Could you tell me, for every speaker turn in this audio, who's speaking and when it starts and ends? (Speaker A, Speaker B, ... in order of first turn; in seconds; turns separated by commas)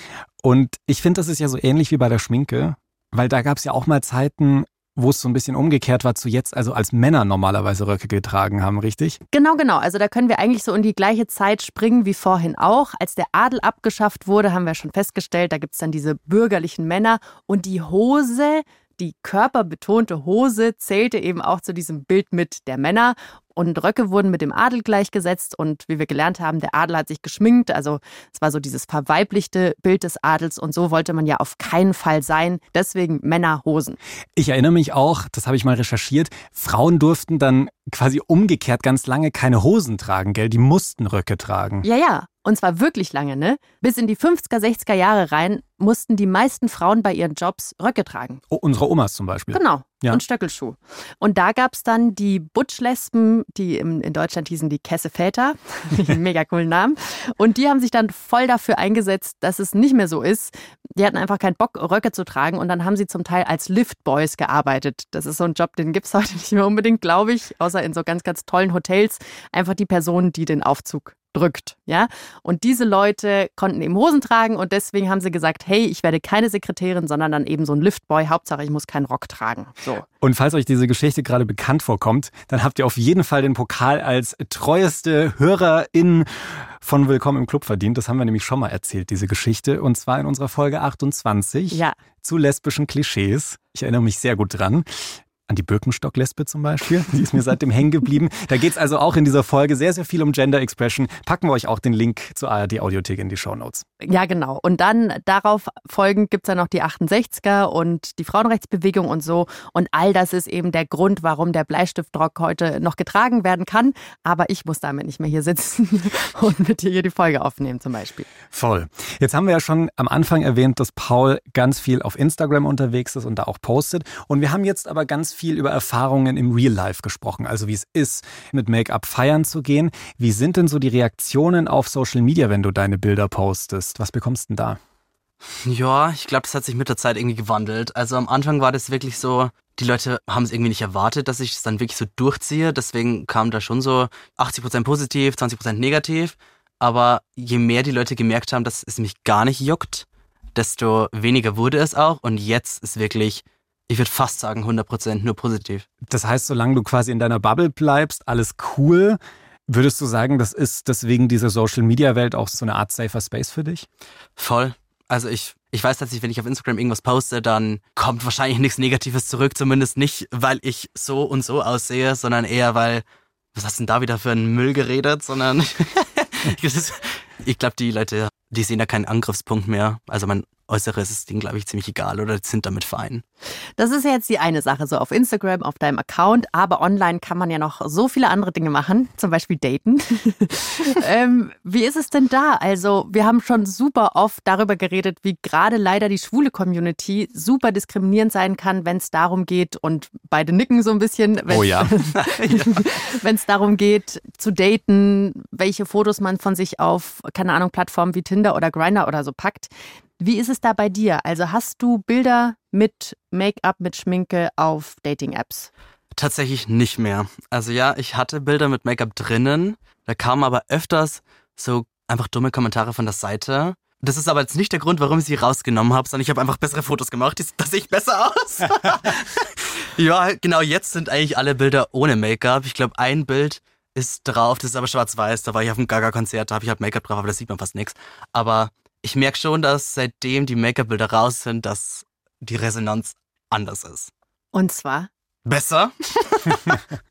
Speaker A: 0.4-9.2, Speaker B: 9.3-34.0, Speaker A: 34.4-41.9, Speaker B: 41.8-48.4, Speaker A: 48.5-50.2, Speaker B: 49.5-80.0, Speaker A: 80.2-103.8, Speaker B: 91.7-92.0, Speaker B: 104.0-118.3, Speaker A: 118.5-134.8, Speaker C: 135.6-155.9, Speaker A: 156.1-163.8, Speaker C: 164.4-173.0, Speaker C: 173.5-183.2, Speaker B: 183.8-215.7, Speaker A: 201.5-201.9, Speaker C: 202.2-202.7, Speaker C: 216.1-244.1, Speaker B: 244.5-245.1, Speaker C: 245.4-246.8